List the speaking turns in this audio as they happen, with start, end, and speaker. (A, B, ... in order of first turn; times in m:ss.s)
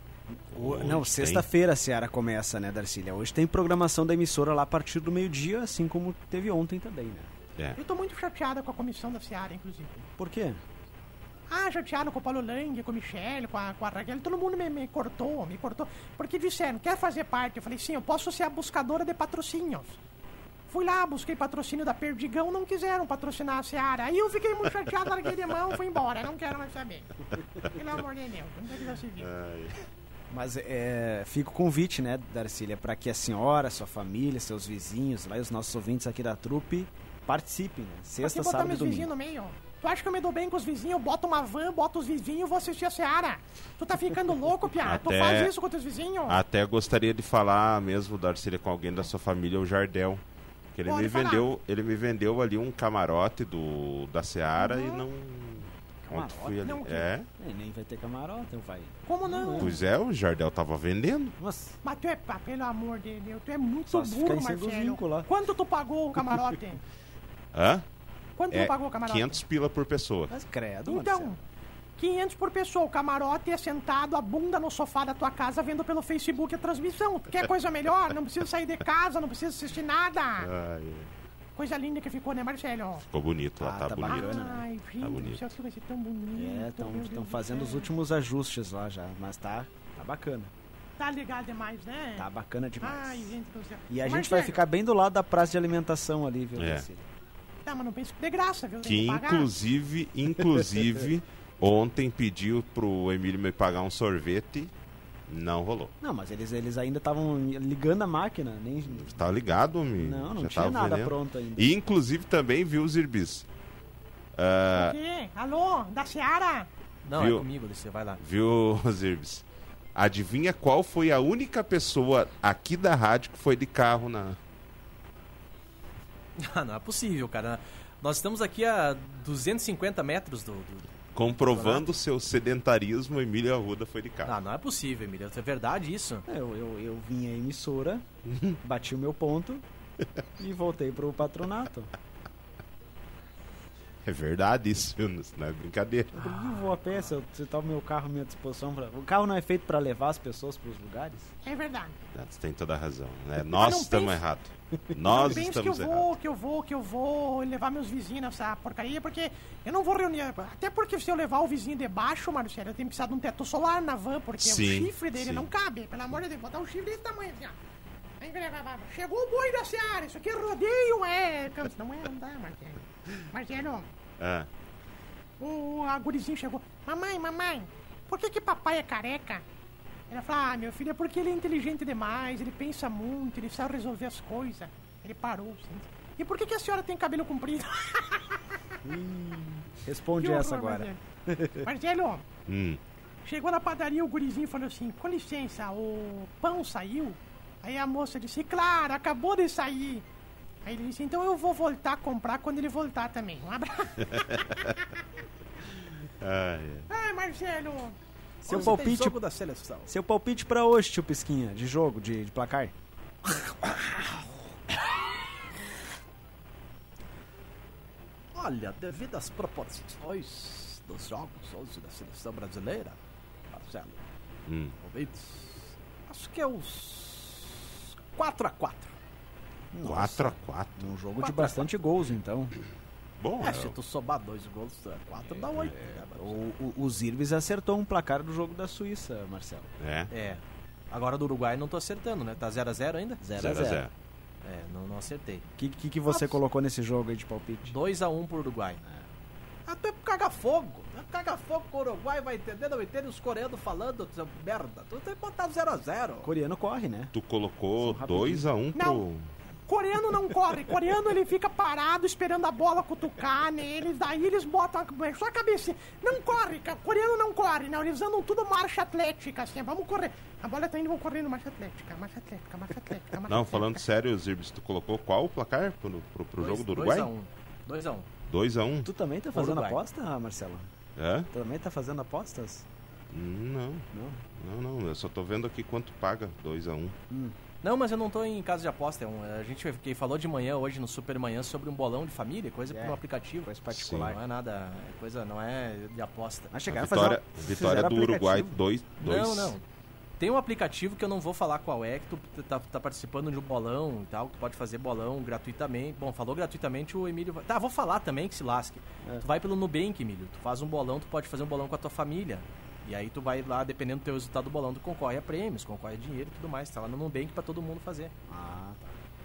0:00.5-0:07.3 A
0:00.5-0:01.5 B
0:07.8-0:10.0 C
0:10.2-0:10.6 A
0:11.5-0:20.0 C
0:20.7-0:29.3 C
0:29.2-0:29.8 B
0:30.3-0:39.1 A
0:38.2-0:46.4 C
0:44.8-0:45.5 B
0:46.3-0:50.2 B
0:50.8-0:57.3 B
0:50.9-0:51.5 C
0:54.6-0:55.0 C
0:56.1-0:56.6 A
0:56.6-0:57.1 C
0:57.4-0:59.7 A
0:59.1-0:59.8 C
0:59.6-1:01.4 B
1:01.4-1:01.8 A
1:01.8-1:06.8 C
1:03.9-1:05.3 A
1:07.5-1:07.8 B
1:08.4-1:09.4 C
1:08.5-1:10.3 B
1:10.3-1:11.4 A
1:10.9-1:11.4 C
1:12.0-1:20.5 C
1:20.4-1:21.1 B
1:21.6-1:23.0 C
1:23.0-1:25.4 B
1:23.6-1:24.6 A
1:24.1-1:27.9 C
1:26.3-1:30.5 A
1:31.0-1:32.3 C
1:32.2-1:33.4 A
1:32.8-1:34.6 C
1:33.9-1:37.1 A
1:36.6-1:36.8 B
1:37.7-1:39.5 C
1:38.8-1:44.7 B
1:45.3-1:45.9 B
1:46.0-1:49.2 A
1:48.9-1:53.5 B
1:50.0-1:51.7 A
1:54.4-1:55.0 B
1:54.7-1:56.7 C
1:57.1-1:58.2 D
1:57.1-1:57.5 B
1:58.2-2:04.4 B
2:06.4-2:10.9 D
2:11.2-2:14.4 B
2:11.5-2:11.9 A
2:14.3-2:16.2 D
2:16.3-2:18.0 A
2:18.3-2:18.6 B
2:18.6-2:19.6 A
2:20.4-2:21.9 A
2:24.0-2:26.4 B
2:26.1-2:31.3 A
2:26.7-2:27.1 D
2:31.4-2:32.0 C
2:32.1-2:36.1 B
2:33.5-2:34.2 C
2:34.9-2:35.4 A
2:35.0-2:47.6 C
2:44.4-2:45.5 B
2:48.2-2:53.9 C
2:54.2-2:54.5 B
2:55.4-2:59.4 C
3:00.1-3:08.8 C
3:08.8-3:11.7 A
3:10.2-3:11.0 C
3:11.6-3:12.2 C
3:12.5-3:12.8 B
3:13.2-3:20.1 C
3:20.6-3:24.7 C
3:24.0-3:24.8 B
3:26.2-3:26.9 B
3:26.9-3:28.0 C
3:28.4-3:29.9 D
3:28.4-3:29.2 A
3:29.9-3:32.7 A
3:38.3-3:43.0 D
3:43.5-3:44.0 D
3:44.5-3:44.8 B
3:44.8-3:48.9 D
3:49.7-3:52.6 A
3:49.8-3:50.9 B
3:51.2-3:51.8 D
3:53.2-3:53.8 B
3:53.4-3:56.4 D
3:55.6-3:59.7 A
3:59.8-4:00.1 B
4:00.1-4:03.7 D
4:03.2-4:03.8 A
4:03.4-4:03.9 B
4:04.4-4:05.5 D
4:05.6-4:07.8 A
4:06.1-4:06.4 D
4:07.7-4:08.8 D
4:09.7-4:16.3 D
4:16.2-4:17.1 A
4:17.1-4:19.3 B
4:17.8-4:18.5 A
4:18.7-4:19.1 C
4:19.7-4:33.8 C
4:33.3-4:37.1 B
4:36.4-4:38.1 D
4:38.3-4:38.9 B
4:38.8-4:40.7 A
4:39.4-4:39.8 D
4:41.0-4:41.3 B
4:41.3-4:42.7 A
4:43.1-4:47.0 B
4:43.9-4:44.2 A
4:47.1-4:47.4 A
4:47.6-4:56.5 D
4:52.7-4:54.2 A
4:53.7-4:54.1 B
4:56.5-4:58.6 A
4:56.7-4:59.6 B
4:59.0-4:59.6 D
5:00.2-5:18.1 D
5:18.3-5:19.0 A